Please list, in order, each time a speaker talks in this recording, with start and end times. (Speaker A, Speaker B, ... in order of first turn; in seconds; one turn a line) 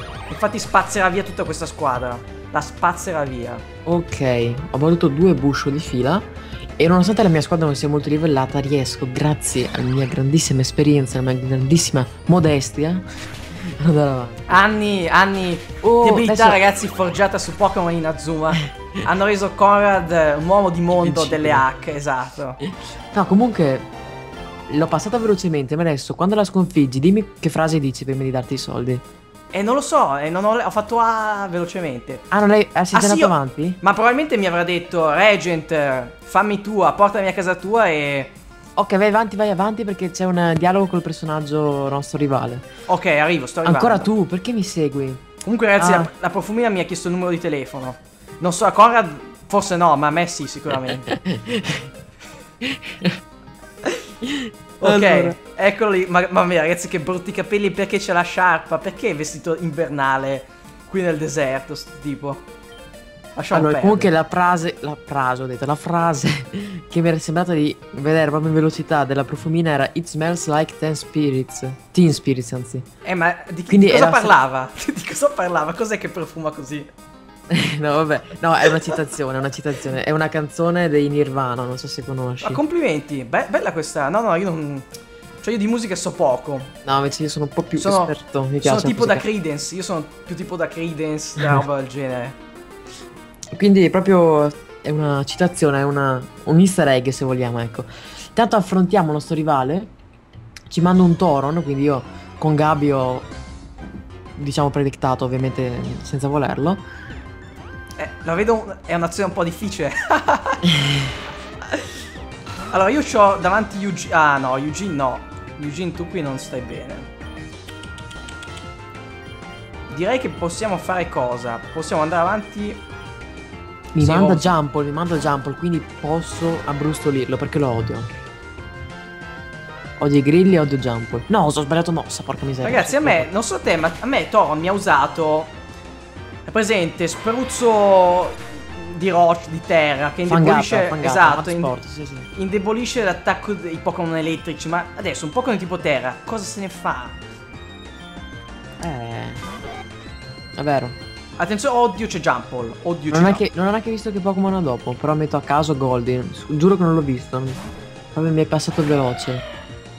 Speaker A: 0.3-3.6
Speaker B: 3.9-6.3
Speaker B: 6.8-13.1
Speaker B: 13.6-14.5
Speaker A: 14.5-22.6
Speaker B: 15.8-16.6
Speaker B: 21.0-21.6
Speaker B: 23.1-23.9
Speaker B: 24.7-29.0
Speaker A: 29.5-32.2
Speaker B: 32.3-33.8
Speaker A: 32.9-38.3
Speaker B: 38.8-42.7
Speaker A: 42.9-44.1
Speaker B: 43.6-45.2
Speaker A: 45.4-51.1
Speaker B: 45.8-46.1
Speaker B: 51.1-51.9
Speaker B: 52.7-53.1
Speaker B: 54.2-55.4
Speaker A: 54.8-62.4
Speaker A: 63.4-64.1
Speaker B: 63.5-72.9
Speaker A: 73.0-76.9
Speaker B: 73.7-74.3
Speaker B: 77.5-82.6
Speaker A: 82.4-84.9
Speaker A: 85.4-86.7
Speaker B: 86.8-89.3
Speaker A: 87.8-92.4
Speaker B: 93.5-99.9
Speaker B: 100.7-103.3
Speaker B: 104.4-106.8
Speaker A: 108.0-110.7
Speaker A: 112.7-117.1
Speaker A: 119.9-122.8
Speaker B: 123.9-128.1
Speaker A: 124.0-124.5
Speaker B: 130.0-133.3
Speaker A: 132.6-135.5
Speaker A: 136.5-141.7
Speaker B: 140.3-142.3
Speaker A: 142.3-147.2
Speaker B: 148.8-149.5
Speaker B: 150.6-151.0
Speaker A: 151.4-153.4
Speaker B: 153.1-159.5